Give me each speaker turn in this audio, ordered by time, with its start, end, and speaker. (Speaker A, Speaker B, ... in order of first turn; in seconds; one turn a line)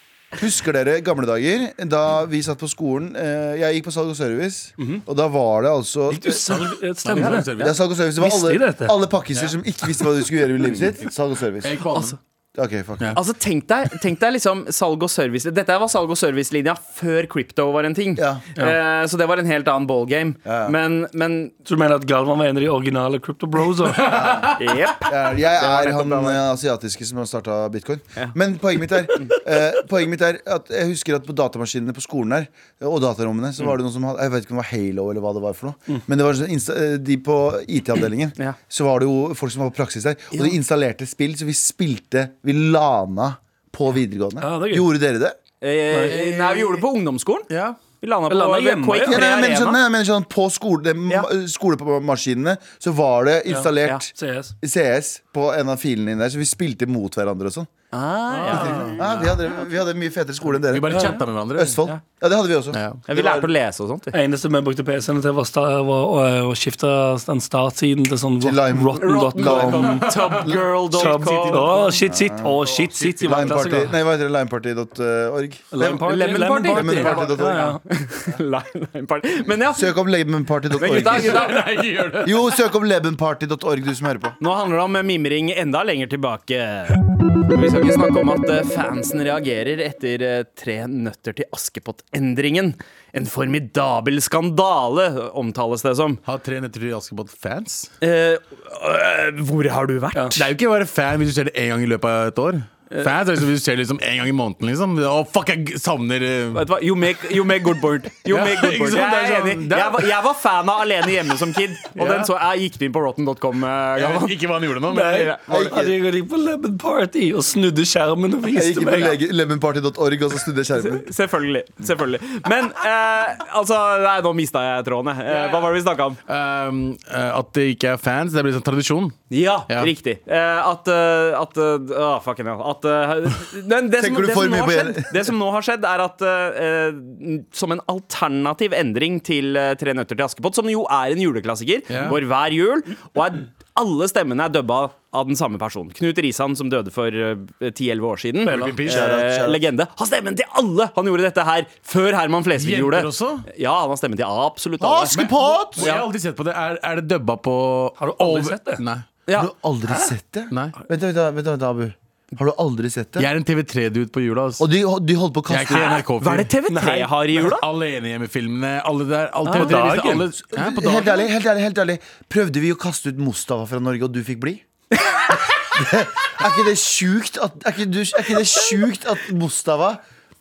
Speaker A: 0.4-11.7
Speaker B: 6.1-7.5
Speaker C: 7.0-7.7
Speaker B: 8.2-8.9
Speaker C: 11.6-12.2
Speaker A: 12.6-13.2
Speaker D: 13.1-21.5
Speaker A: 18.1-18.4
Speaker A: 20.4-20.7
Speaker B: 21.6-24.1
Speaker C: 24.0-24.9
Speaker A: 24.0-24.5
Speaker D: 24.6-26.4
Speaker A: 25.1-45.4
Speaker B: 44.4-44.9
Speaker D: 45.6-47.5
Speaker B: 45.9-46.1
Speaker C: 46.1-46.8
Speaker C: 47.5-47.8
Speaker D: 48.0-49.8
Speaker B: 48.3-49.2
Speaker A: 49.0-57.7
Speaker B: 53.5-54.5
Speaker D: 57.9-59.0
Speaker C: 58.3-59.3
Speaker A: 58.9-63.5
Speaker C: 60.7-61.8
Speaker C: 62.7-63.0
Speaker D: 63.1-64.1
Speaker B: 64.1-70.1
Speaker A: 68.4-70.1
Speaker D: 69.0-71.9
Speaker C: 69.3-72.0
Speaker B: 70.9-73.9
Speaker A: 72.0-77.8
Speaker C: 72.6-73.8
Speaker B: 75.7-77.8
Speaker D: 76.1-79.9
Speaker A: 79.7-81.6
Speaker D: 80.8-81.6
Speaker C: 80.8-82.5
Speaker A: 82.2-84.4
Speaker D: 84.4-96.2
Speaker C: 96.2-97.9
Speaker D: 98.0-100.4
Speaker C: 100.3-106.6
Speaker D: 106.5-114.3
Speaker C: 108.2-110.1
Speaker C: 112.0-112.3
Speaker C: 114.0-115.3
Speaker B: 114.9-119.2
Speaker D: 115.1-115.8
Speaker A: 115.5-115.9
Speaker A: 118.5-121.1
Speaker D: 120.8-126.2
Speaker C: 125.3-129.9
Speaker D: 129.3-155.2
Speaker A: 134.0-135.1
Speaker C: 141.9-142.2
Speaker B: 148.4-148.8
Speaker C: 148.5-149.1
Speaker A: 148.8-149.6
Speaker C: 152.6-153.4
Speaker A: 154.8-155.8
Speaker C: 155.1-159.0
Speaker D: 155.8-156.1
Speaker B: 158.0-158.8
Speaker A: 159.3-163.3
Speaker C: 163.2-164.7
Speaker A: 164.6-166.0
Speaker C: 165.5-166.5
Speaker D: 166.2-167.6
Speaker B: 166.7-167.2
Speaker C: 167.4-171.1
Speaker D: 169.4-169.7
Speaker B: 169.5-170.3
Speaker A: 170.5-174.6
Speaker D: 175.0-175.3
Speaker A: 175.7-180.0